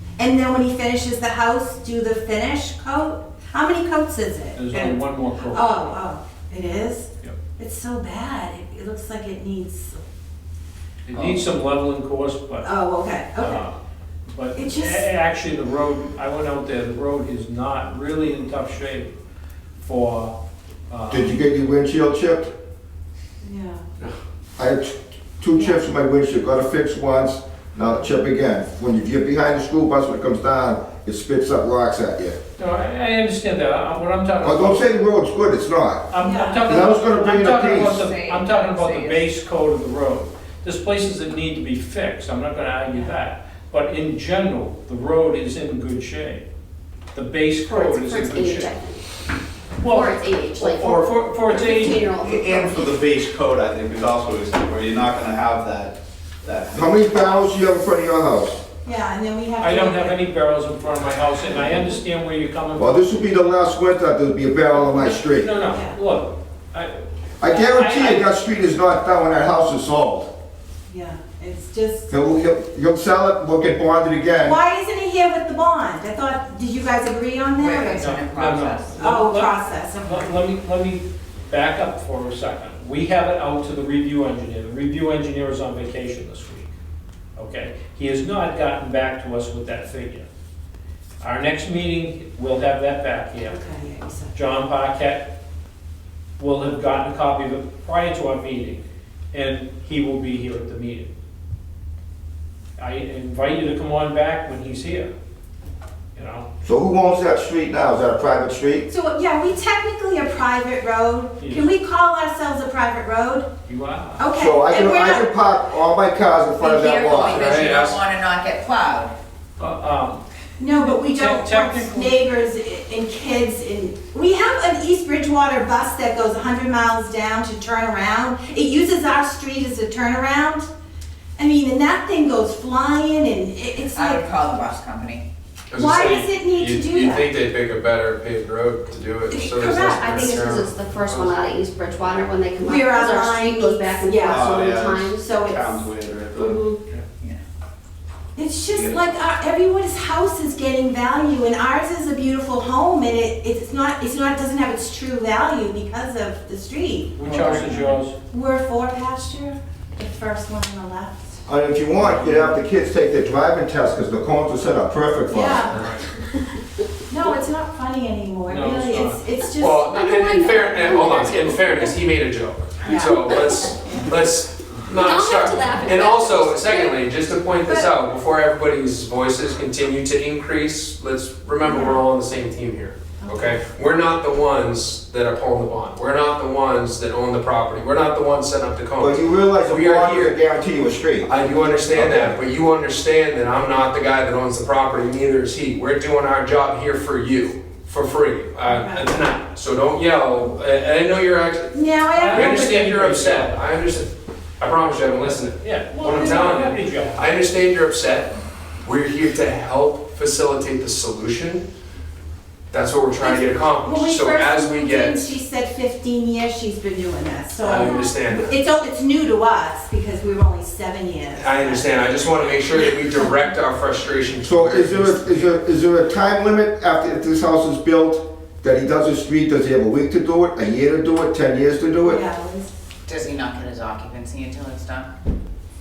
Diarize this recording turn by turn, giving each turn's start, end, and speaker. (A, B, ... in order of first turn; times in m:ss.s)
0:00.2-0:10.0 A
0:04.5-0:05.8 B
0:11.0-0:12.7 B
0:11.1-0:11.4 C
0:12.6-0:13.6 A
0:13.4-0:13.7 B
0:14.3-0:19.1 B
0:14.5-0:15.1 A
0:19.8-0:20.3 B
0:20.9-0:21.4 B
0:21.1-0:22.5 D
0:23.4-0:23.8 A
0:24.6-0:32.4 D
0:25.5-0:25.8 A
0:32.6-0:34.9 B
0:34.4-0:36.1 D
0:36.1-0:46.4 B
0:36.2-0:36.8 A
0:36.6-0:38.0 D
0:37.7-0:39.3 C
0:47.1-0:48.7 B
0:47.6-0:49.0 E
0:49.8-0:52.1 B
0:49.8-0:50.9 E
0:50.7-0:51.1 F
0:51.5-0:52.9 E
0:52.2-0:57.5 F
0:56.7-0:58.6 D
0:58.8-1:00.2 A
0:59.6-1:03.0 B
1:02.8-1:05.5 D
1:04.7-1:08.2 B
1:05.6-1:06.0 A
1:07.4-1:10.3 D
1:10.9-1:12.1 A
1:12.1-1:14.6 D
1:14.4-1:18.1 A
1:17.5-1:19.1 C
1:18.0-1:26.7 B
1:19.0-1:20.3 A
1:27.4-1:30.2 B
1:31.2-1:33.6 B
1:33.4-1:34.4 A
1:34.3-1:35.3 B
1:36.4-1:41.1 B
1:42.8-1:45.1 B
1:46.1-1:46.5 B
1:46.6-1:48.9 D
1:48.9-1:53.5 A
1:51.4-1:51.7 B
1:53.7-1:54.3 B
1:54.2-1:55.3 A
1:54.4-1:57.5 D
1:56.6-1:59.1 C
1:57.3-1:58.0 G
1:59.6-2:00.2 B
2:00.6-2:10.7 A
2:01.0-2:02.2 B
2:11.4-2:14.2 A
2:13.9-2:15.2 C
2:15.7-2:21.4 G
2:15.8-2:17.3 A
2:19.3-2:20.6 A
2:20.2-2:25.3 E
2:22.6-2:24.6 A
2:24.3-2:26.6 F
2:25.2-2:25.9 A
2:26.3-2:26.8 E
2:28.4-2:37.2 A
2:28.6-2:29.1 F
2:37.2-2:38.1 B
2:37.2-2:38.0 C
2:38.3-2:41.4 A
2:41.4-2:45.8 D
2:42.0-2:42.6 B
2:45.3-2:45.8 A
2:45.7-2:46.0 B
2:47.1-2:49.9 A
2:48.5-2:49.2 B
2:49.6-3:10.4 G
2:49.9-2:52.0 E
2:52.8-2:54.0 A
2:54.9-2:56.9 E
2:57.6-2:57.9 A
3:01.6-3:02.0 A
3:03.2-3:03.6 A
3:09.0-3:11.3 D
3:11.2-3:31.6 G
3:11.9-3:12.4 D
3:18.6-3:19.3 A
3:21.7-3:23.0 A
3:22.1-3:23.6 B
3:25.2-3:27.3 B
3:26.2-3:26.6 A
3:32.7-3:35.3 G
3:33.2-3:43.4 A
3:37.6-3:38.5 G
3:41.4-3:45.5 G
3:44.4-3:52.2 D
3:52.0-3:52.7 A
3:53.1-3:55.1 C